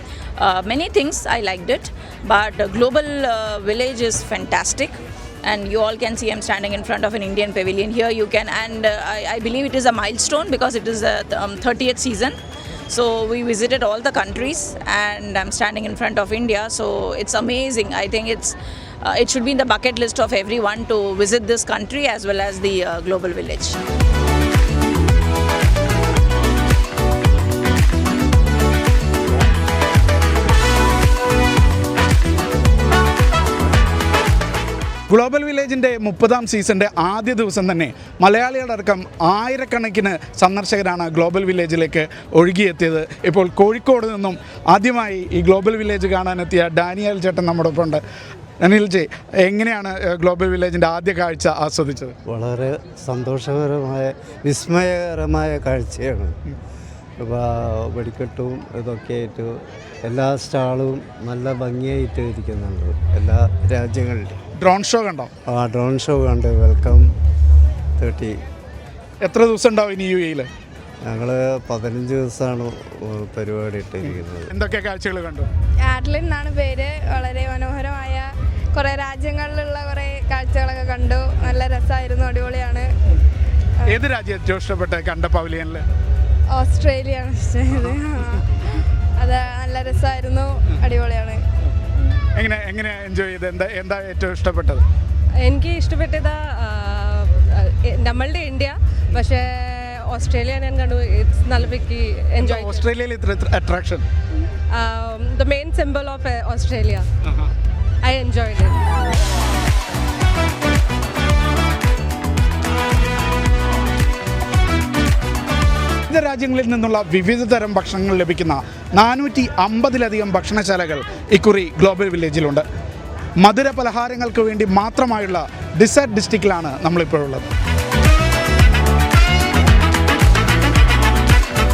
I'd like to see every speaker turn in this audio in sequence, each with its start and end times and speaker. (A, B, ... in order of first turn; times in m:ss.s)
0:00.4-0:12.4 A
0:12.9-0:23.8 A
0:35.1-0:48.0 B
0:48.6-0:52.2 B
0:52.3-0:56.4 C
0:57.2-0:59.5 C
1:00.0-1:04.4 C
1:04.6-1:05.3 B
1:05.5-1:07.0 C
1:08.0-1:08.4 C
1:09.2-1:10.5 B
1:11.1-1:14.5 C
1:14.1-1:15.5 B
1:15.8-1:22.9 D
1:23.9-1:25.8 B
1:26.5-1:28.6 D
1:29.2-1:31.4 D
1:32.4-1:34.8 B
1:35.4-1:42.8 E
1:42.4-1:44.0 B
1:44.7-1:47.1 E
1:48.0-1:48.8 E
1:56.1-2:02.6 B
2:03.4-2:07.5 B